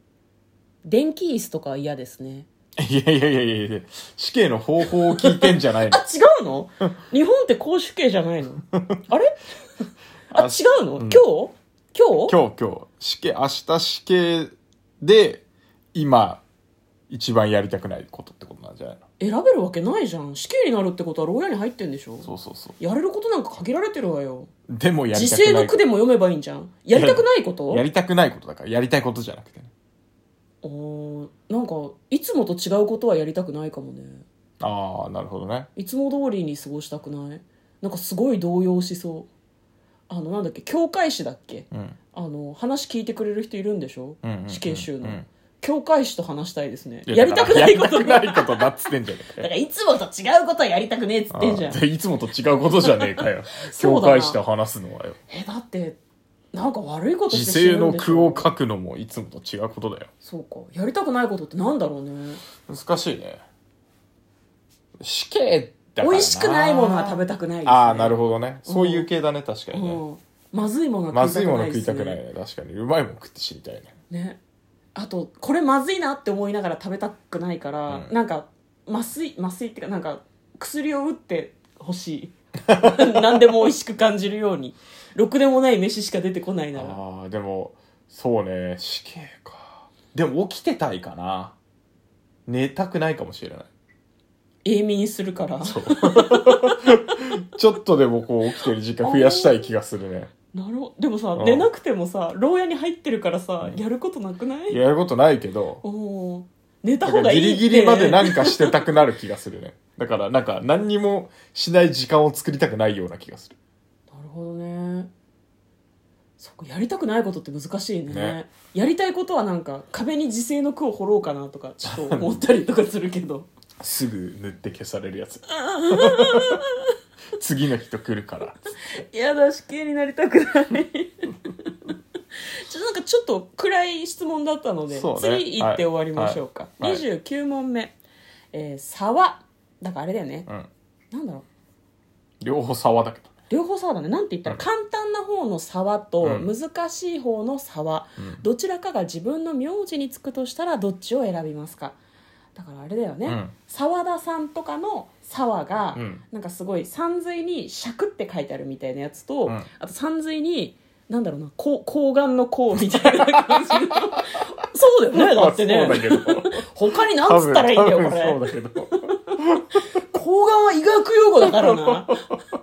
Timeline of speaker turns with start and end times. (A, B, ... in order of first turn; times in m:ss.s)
0:00.8-0:02.5 A
0:02.8-0:06.0 B
0:05.2-0:09.4 A
0:10.3-0:12.4 A
0:10.3-0:11.2 B
0:12.3-0:16.4 B
0:17.1-0:19.0 B
0:19.2-0:24.5 A
0:22.2-0:22.8 B
0:24.7-0:25.8 B
0:25.1-0:27.8 A
0:26.9-0:29.7 B
0:30.6-0:34.2 A
0:34.6-0:35.7 B
0:35.8-0:39.3 A
0:40.1-0:48.7 A
0:44.2-0:45.2 B
0:47.1-0:49.5 B
0:49.3-0:51.8 A
0:51.3-0:55.2 B
0:52.9-0:54.4 A
0:55.3-0:56.0 A
0:56.5-0:58.5 A
0:57.3-1:00.1 B
1:00.2-1:02.4 A
1:02.7-1:03.4 B
1:05.0-1:10.0 B
1:06.0-1:09.1 A
1:09.7-1:12.2 A
1:11.1-1:13.9 B
1:14.1-1:14.4 A
1:15.0-1:27.0 A
1:22.7-1:23.2 B
1:26.7-1:31.6 B
1:32.5-1:33.7 B
1:34.6-1:37.2 A
1:35.6-1:40.3 B
1:39.0-1:39.7 A
1:40.5-1:44.8 A
1:41.4-1:41.7 B
1:44.7-1:45.8 B
1:45.8-1:48.8 A
1:47.0-1:53.6 B
1:54.1-1:55.1 A
1:56.4-2:03.5 A
1:58.1-1:58.4 B
2:01.8-2:02.4 B
2:03.8-2:06.6 B
2:05.5-2:06.9 A
2:07.4-2:08.6 B
2:09.0-2:11.9 A
2:12.7-2:18.0 A
2:14.9-2:17.0 B
2:18.5-2:20.5 A
2:21.1-2:21.4 A
2:22.4-2:23.3 B
2:23.5-2:32.0 A
2:26.2-2:26.5 B
2:28.2-2:28.4 B
2:32.6-2:48.4 A
2:33.3-2:33.5 B
2:35.9-2:36.2 B
2:43.1-2:43.7 B
2:45.1-2:49.7 B
2:49.1-2:49.4 A
2:50.1-2:52.2 A
2:51.4-2:52.1 B